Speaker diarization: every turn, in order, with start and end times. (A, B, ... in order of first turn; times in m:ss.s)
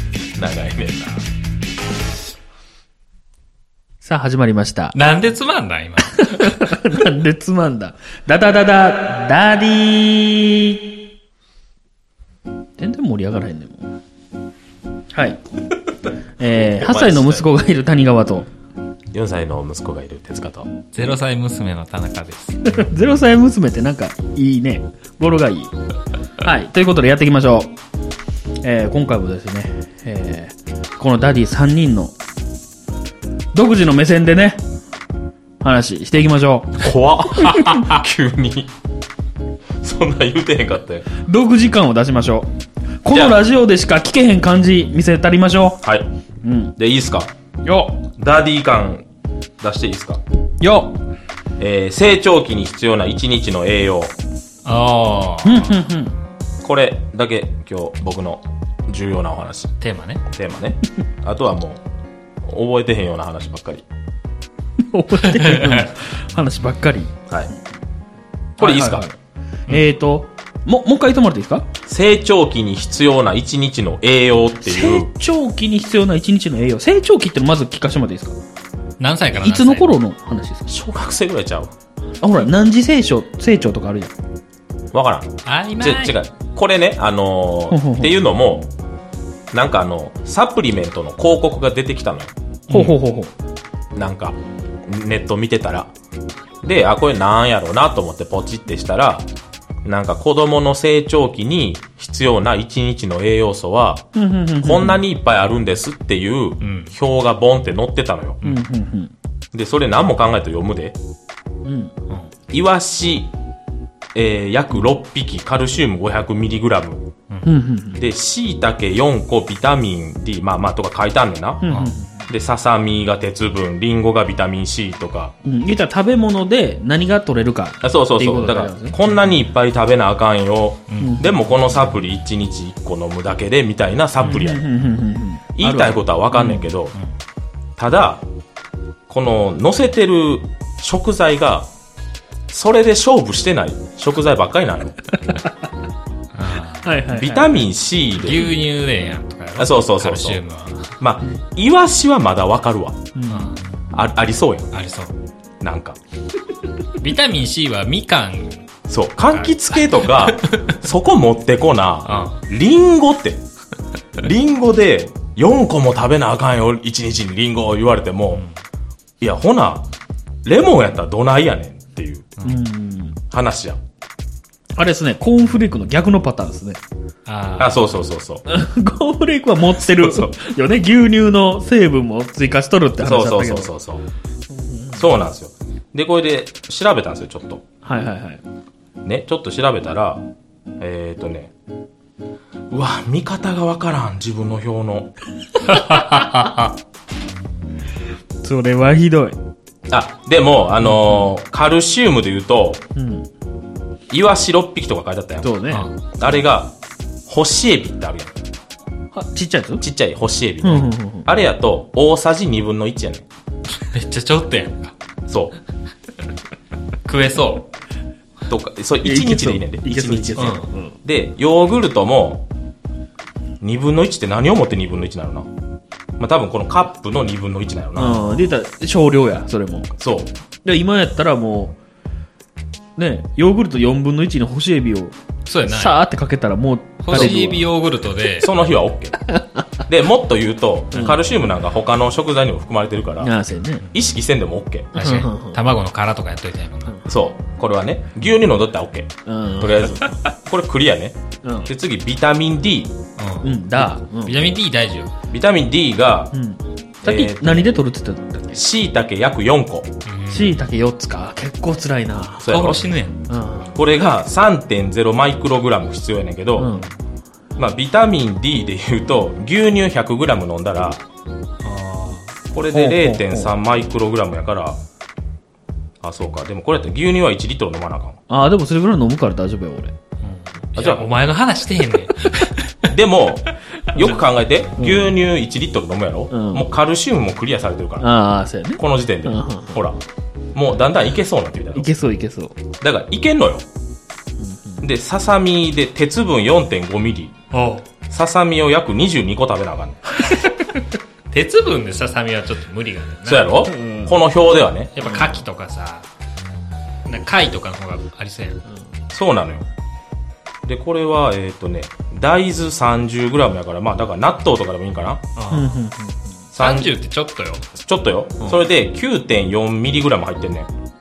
0:00.4-0:01.2 A
0:04.0-0:05.0 B
0:04.9-0:06.6 C
0:06.1-0:10.8 B
0:12.8-0:13.9 B
0:15.1-0:15.4 B
0:16.4-0:18.5 B
0:16.8-0:17.4 A
0:19.1-0:20.8 A
0:20.9-0:22.6 C
0:22.6-0:25.7 B
0:26.4-0:27.7 B
0:28.6-0:32.1 B
0:33.5-0:34.6 B
0:35.6-0:37.8 B
0:36.8-0:38.7 A
0:39.8-0:41.1 A
0:41.2-0:42.5 B
0:43.0-0:45.8 B
0:43.1-0:43.4 A
0:45.8-0:46.1 A
0:46.4-0:46.8 B
0:46.8-0:47.3 A
0:47.6-0:48.0 B
0:48.2-0:49.0 A
0:49.6-0:50.2 A
0:50.6-0:51.0 B
0:51.6-0:54.2 A
0:54.6-0:55.7 C
0:55.4-0:56.2 B
0:56.6-0:59.8 A
0:59.8-1:00.2 C
1:00.3-1:01.8 A
1:02.4-1:03.8 A
1:04.9-1:07.1 B
1:05.2-1:05.9 C
1:08.6-1:09.1 A
1:08.6-1:09.2 B
1:09.7-1:11.7 B
1:11.9-1:15.1 A
1:14.6-1:18.4 B
1:19.0-1:19.9 C
1:19.4-1:20.7 B
1:20.7-1:21.7 A
1:22.2-1:24.1 B
1:24.9-1:28.7 A
1:25.4-1:26.2 C
1:27.7-1:28.2 B
1:29.5-1:32.9 A
1:32.7-1:33.3 B
1:34.0-1:35.9 A
1:36.6-1:39.3 A
1:39.8-1:44.0 A
1:44.1-1:45.0 B
1:44.6-1:48.4 A
1:46.6-1:47.0 C
1:48.4-1:49.1 B
1:49.5-1:51.0 A
1:51.6-1:51.9 B
1:52.5-1:53.3 A
1:54.1-1:57.1 A
1:57.4-1:58.0 B
1:58.0-2:01.7 A
2:01.6-2:02.2 B
2:01.7-2:01.9 C
2:02.3-2:05.3 A
2:05.4-2:09.0 B
2:07.8-2:14.7 A
2:10.9-2:11.2 C
2:11.0-2:11.4 B
2:14.2-2:16.6 B
2:15.5-2:17.0 A
2:16.4-2:17.1 C
2:17.8-2:18.2 A
2:19.1-2:21.7 A
2:22.5-2:25.0 A
2:25.1-2:25.5 B
2:26.3-2:26.9 C
2:26.8-2:27.6 B
2:27.1-2:28.6 A
2:28.2-2:31.0 C
2:29.6-2:30.4 A
2:31.0-2:33.1 A
2:33.2-2:33.6 B
2:33.3-2:33.8 C
2:33.9-2:34.8 A
2:34.7-2:35.2 C
2:35.6-2:36.0 A
2:37.0-2:38.7 C
2:38.9-2:43.4 A
2:39.3-2:40.8 C
2:42.0-2:42.4 C
2:44.2-2:48.4 A
2:49.2-2:49.9 A
2:50.4-2:52.3 A
2:52.4-2:53.2 B
2:53.3-2:53.8 A
2:54.8-2:56.8 B
2:57.3-2:57.8 C
2:57.6-2:58.4 A
2:58.4-3:03.7 B
2:59.8-3:00.4 A
3:03.0-3:04.0 A
3:04.5-3:05.1 B
3:04.9-3:07.6 A
3:07.8-3:08.4 B
3:09.0-3:10.2 A
3:10.8-3:11.5 A
3:12.7-3:15.1 A
3:15.7-3:16.6 C
3:15.9-3:16.4 B
3:18.4-3:19.4 B
3:19.9-3:22.8 A
3:20.9-3:21.2 B
3:23.0-3:23.3 B
3:24.1-3:25.5 A
3:25.4-3:25.9 B
3:26.2-3:26.8 A
3:27.3-3:28.3 A
3:29.1-3:29.8 B
3:29.8-3:33.2 A
3:30.6-3:31.3 B
3:33.9-3:34.9 C
3:35.3-3:35.6 A
3:37.1-3:37.7 C
3:38.5-3:42.5 A
3:39.0-3:41.0 B
3:40.4-3:40.7 C
3:43.6-3:45.5 A
3:46.2-3:48.3 A
3:48.0-3:50.0 B
3:50.0-3:50.3 A
3:50.6-3:51.8 B
3:53.0-3:57.7 B
3:55.5-3:56.0 C
3:57.0-3:58.5 C
3:57.1-3:57.4 A
3:58.4-3:59.3 A
3:59.9-4:03.3 A
4:00.9-4:01.2 C
4:03.2-4:03.9 B
4:03.9-4:05.0 A
4:04.9-4:07.0 C
4:05.0-4:05.6 B
4:07.1-4:13.0 A
4:09.3-4:10.0 B
4:11.4-4:11.7 B
4:13.2-4:15.1 C
4:13.4-4:14.6 B
4:15.3-4:16.3 A
4:16.3-4:18.6 B
4:17.0-4:17.8 A
4:18.5-4:20.0 A
4:20.1-4:20.6 C
4:20.3-4:22.7 B
4:22.4-4:22.9 A
4:22.4-4:23.3 C
4:23.3-4:23.8 B
4:23.7-4:26.7 A
4:26.6-4:26.9 B
4:27.6-4:31.0 A
4:31.6-4:32.3 C
4:32.5-4:34.8 A
4:32.7-4:33.6 B
4:36.0-4:38.2 A
4:38.3-4:39.9 B
4:40.2-4:43.0 C
4:40.8-4:41.1 A
4:42.9-4:48.1 A
4:43.9-4:45.2 B
4:46.3-4:46.7 B
4:48.0-4:49.8 B
4:48.8-4:51.9 A
4:51.8-4:52.6 B
4:52.8-4:53.7 A
4:54.4-4:54.8 B
4:54.8-4:57.3 A
4:57.5-4:57.8 C
4:58.1-5:00.0 A
5:01.3-5:03.6 C
5:03.2-5:05.0 A
5:03.7-5:04.2 B
5:04.9-5:06.1 C
5:05.0-5:05.5 B
5:07.0-5:08.6 C
5:09.1-5:09.6 A
5:10.7-5:15.2 A
5:15.4-5:15.7 C
5:15.5-5:16.3 B
5:16.5-5:17.7 C
5:16.6-5:16.9 A
5:17.8-5:20.7 A
5:18.4-5:18.7 C